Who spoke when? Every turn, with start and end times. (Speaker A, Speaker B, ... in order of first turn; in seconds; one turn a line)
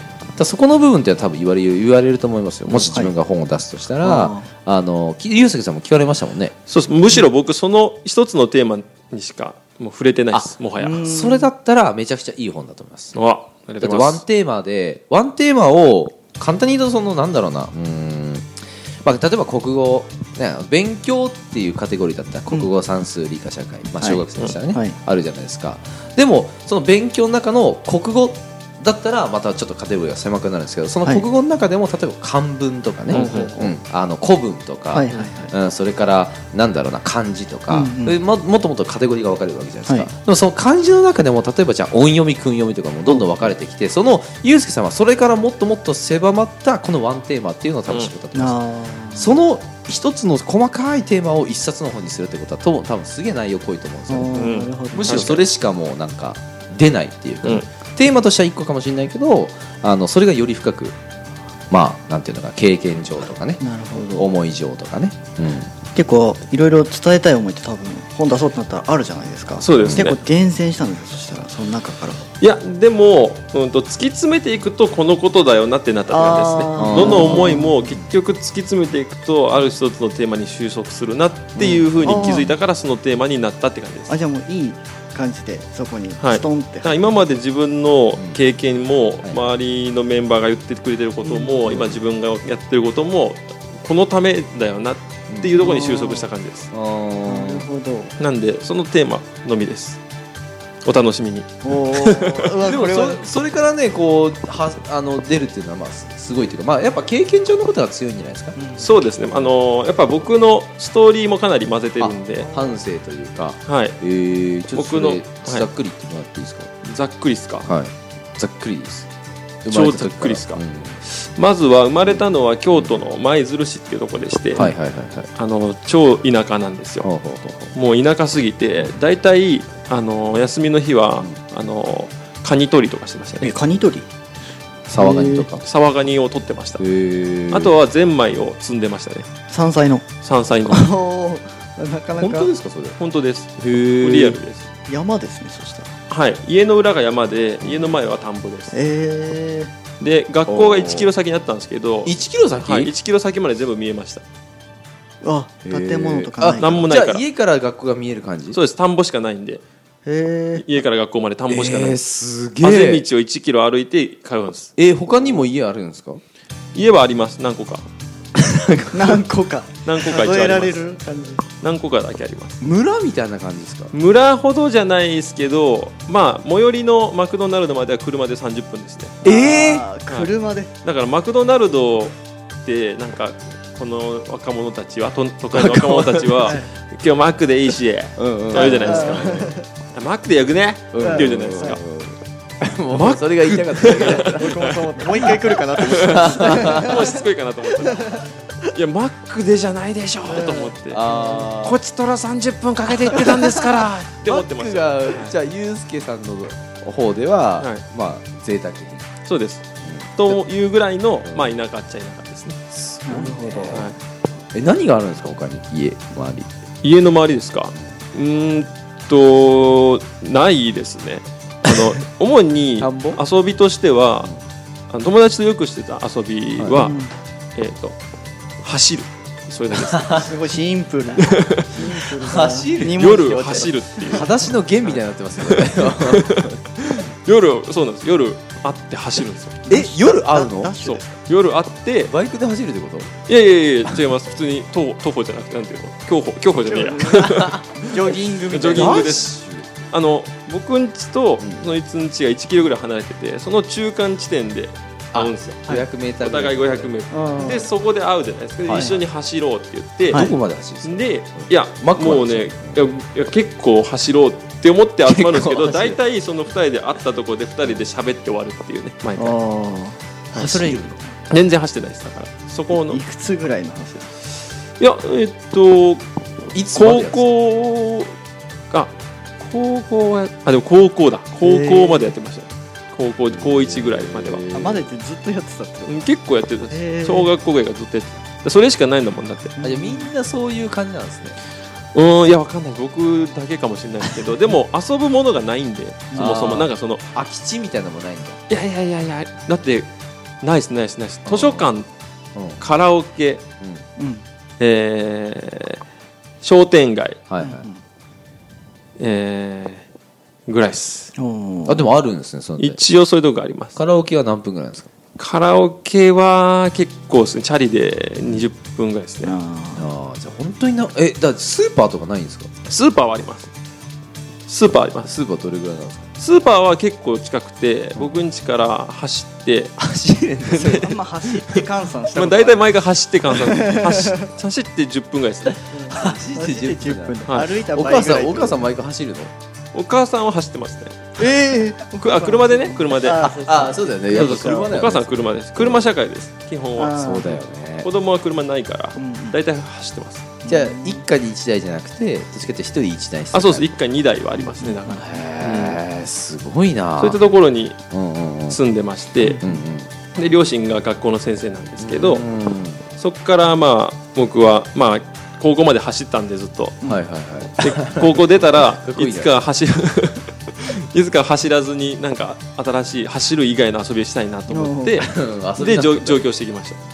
Speaker A: 0.4-6.5
Speaker B: 2.7-3.1
Speaker B: 4.0-4.5
Speaker C: 6.7-11.1
Speaker A: 10.3-13.2
Speaker B: 10.8-11.5
Speaker C: 13.1-14.2
Speaker A: 13.8-48.6
Speaker B: 24.0-25.0
Speaker B: 33.1-33.7
Speaker C: 33.1-33.7
Speaker B: 34.9-35.5
Speaker B: 37.7-38.2
Speaker B: 43.1-43.4
Speaker C: 47.9-48.1
Speaker B: 48.3-49.3
Speaker A: 49.1-61.0
Speaker B: 54.1-55.3
Speaker C: 54.3-55.5
Speaker A: 61.7-65.7
Speaker B: 63.6-64.3
Speaker B: 65.9-72.3
Speaker C: 69.6-70.2
Speaker A: 69.7-70.1
Speaker C: 72.4-84.2
Speaker B: 76.1-77.8
Speaker A: 76.8-78.1
Speaker A: 81.5-82.2
Speaker B: 81.6-82.5
Speaker B: 84.1-87.2
Speaker C: 86.2-96.7
Speaker A: 88.1-88.4
Speaker B: 91.2-91.9
Speaker A: 91.7-92.0
Speaker A: 95.3-95.5
Speaker B: 95.6-96.3
Speaker A: 96.7-97.7
Speaker B: 97.2-98.1
Speaker C: 98.2-100.0
Speaker C: 100.8-102.5
Speaker B: 101.6-103.2
Speaker A: 102.6-108.6
Speaker B: 108.5-108.9
Speaker C: 108.8-112.5
Speaker A: 112.0-116.8
Speaker B: 112.3-112.8
Speaker C: 113.7-114.0
Speaker C: 114.7-115.7
Speaker C: 116.8-117.7
Speaker A: 117.6-119.1
Speaker A: 119.6-121.0
Speaker C: 119.7-124.7
Speaker A: 122.0-123.0
Speaker A: 124.5-125.3
Speaker C: 125.3-127.1
Speaker A: 127.0-127.8
Speaker C: 127.7-133.5
Speaker B: 133.4-134.1
Speaker A: 134.9-135.7
Speaker B: 135.0-135.5
Speaker C: 135.6-136.8
Speaker A: 136.8-137.8
Speaker C: 137.5-139.3
Speaker B: 139.5-140.0
Speaker C: 140.2-140.9
Speaker B: 140.7-142.5
Speaker A: 142.2-143.0
Speaker C: 142.9-144.7
Speaker A: 143.6-144.4
Speaker B: 144.9-145.9
Speaker C: 146.1-148.8
Speaker A: 147.6-148.0
Speaker B: 148.7-149.7
Speaker C: 150.0-154.2
Speaker A: 150.5-151.1
Speaker A: 152.0-152.9
Speaker B: 155.2-156.9
Speaker A: 155.6-158.6
Speaker C: 156.6-157.2
Speaker C: 158.5-159.6
Speaker B: 160.0-160.7
Speaker C: 160.6-162.0
Speaker A: 161.5-163.1
Speaker C: 162.6-164.7
Speaker A: 164.8-166.2
Speaker C: 166.7-167.8
Speaker A: 168.4-169.2
Speaker B: 168.9-171.4
Speaker C: 169.8-170.9
Speaker C: 171.6-172.6
Speaker A: 172.6-173.9
Speaker C: 173.9-179.2
Speaker B: 179.2-180.7
Speaker A: 179.2-179.8
Speaker C: 180.8-191.8
Speaker A: 185.5-186.5
Speaker B: 186.4-186.7
Speaker A: 188.2-189.5
Speaker B: 188.5-189.6
Speaker A: 190.9-194.5
Speaker B: 191.0-191.8
Speaker C: 192.9-201.0
Speaker B: 193.8-198.3
Speaker A: 195.9-197.0
Speaker B: 200.3-201.5
Speaker A: 200.9-201.8
Speaker C: 201.5-205.3
Speaker B: 203.0-203.7
Speaker A: 204.2-209.1
Speaker C: 207.6-207.8
Speaker C: 209.2-209.6
Speaker A: 209.8-210.4
Speaker C: 210.2-212.6
Speaker A: 211.2-211.5
Speaker A: 212.7-213.9
Speaker B: 213.0-213.9
Speaker C: 213.7-214.0
Speaker A: 214.5-216.5
Speaker C: 216.8-224.3
Speaker A: 222.8-223.2
Speaker C: 224.9-228.0
Speaker A: 226.6-226.9
Speaker B: 226.8-227.1
Speaker C: 228.6-230.3
Speaker A: 229.7-230.2
Speaker B: 230.1-234.4
Speaker C: 231.2-232.0
Speaker A: 232.2-233.1
Speaker C: 232.9-239.7
Speaker A: 234.1-236.8
Speaker B: 239.6-241.2
Speaker A: 239.7-240.7
Speaker C: 240.8-242.1
Speaker A: 242.0-243.1
Speaker C: 243.3-249.3
Speaker B: 246.7-249.2
Speaker A: 247.2-249.8
Speaker C: 249.9-260.3
Speaker A: 251.4-251.7
Speaker A: 255.1-257.6
Speaker B: 257.1-257.7
Speaker A: 258.6-258.9
Speaker B: 258.7-259.0
Speaker A: 260.1-262.8
Speaker C: 260.8-269.4
Speaker A: 265.0-266.0
Speaker B: 269.1-271.0
Speaker A: 270.4-271.0
Speaker C: 271.3-273.0
Speaker B: 272.7-274.1
Speaker C: 274.8-276.1
Speaker A: 276.5-277.3
Speaker C: 276.7-278.1
Speaker C: 278.7-284.4
Speaker B: 281.4-282.1
Speaker A: 283.3-284.9
Speaker B: 284.5-286.1
Speaker C: 285.9-289.6
Speaker B: 286.7-287.3
Speaker B: 289.6-290.1
Speaker A: 289.6-291.4
Speaker C: 291.9-297.0
Speaker B: 296.1-296.5
Speaker A: 296.1-298.4
Speaker C: 298.5-299.9
Speaker C: 300.4-301.9
Speaker A: 301.2-301.7
Speaker A: 302.3-302.6
Speaker C: 302.6-303.4
Speaker B: 304.0-304.2
Speaker C: 304.6-305.8
Speaker C: 306.4-307.2
Speaker A: 307.3-307.7
Speaker B: 307.4-307.8
Speaker C: 309.0-309.9
Speaker C: 310.5-311.1
Speaker B: 311.1-311.9
Speaker A: 311.6-312.8
Speaker C: 312.6-313.8
Speaker A: 313.7-314.9
Speaker C: 315.2-319.4
Speaker B: 319.2-319.9
Speaker A: 319.7-322.5
Speaker C: 322.6-323.5
Speaker C: 324.5-325.1
Speaker A: 325.0-326.1
Speaker C: 326.2-329.8
Speaker A: 327.9-328.2
Speaker A: 329.8-330.8
Speaker C: 330.5-335.6
Speaker B: 330.5-332.7
Speaker B: 333.3-334.3
Speaker B: 335.7-338.7
Speaker A: 335.8-339.3
Speaker C: 337.2-337.6
Speaker C: 339.7-341.3
Speaker B: 341.2-344.7
Speaker C: 341.9-343.4
Speaker A: 343.4-345.9
Speaker C: 344.1-347.0
Speaker B: 346.8-347.4
Speaker A: 346.9-347.9
Speaker C: 347.8-350.3
Speaker B: 348.9-349.4
Speaker B: 350.4-351.1
Speaker A: 350.5-353.7
Speaker C: 353.3-355.8
Speaker B: 354.5-355.0
Speaker A: 354.9-357.2
Speaker C: 357.0-357.8
Speaker A: 357.9-358.6
Speaker C: 358.5-359.4
Speaker B: 359.2-359.5
Speaker A: 359.4-359.9
Speaker C: 360.1-362.2
Speaker A: 361.8-362.8
Speaker C: 362.9-366.8
Speaker A: 366.8-369.5
Speaker C: 367.6-376.8
Speaker B: 374.5-375.0
Speaker A: 375.0-376.2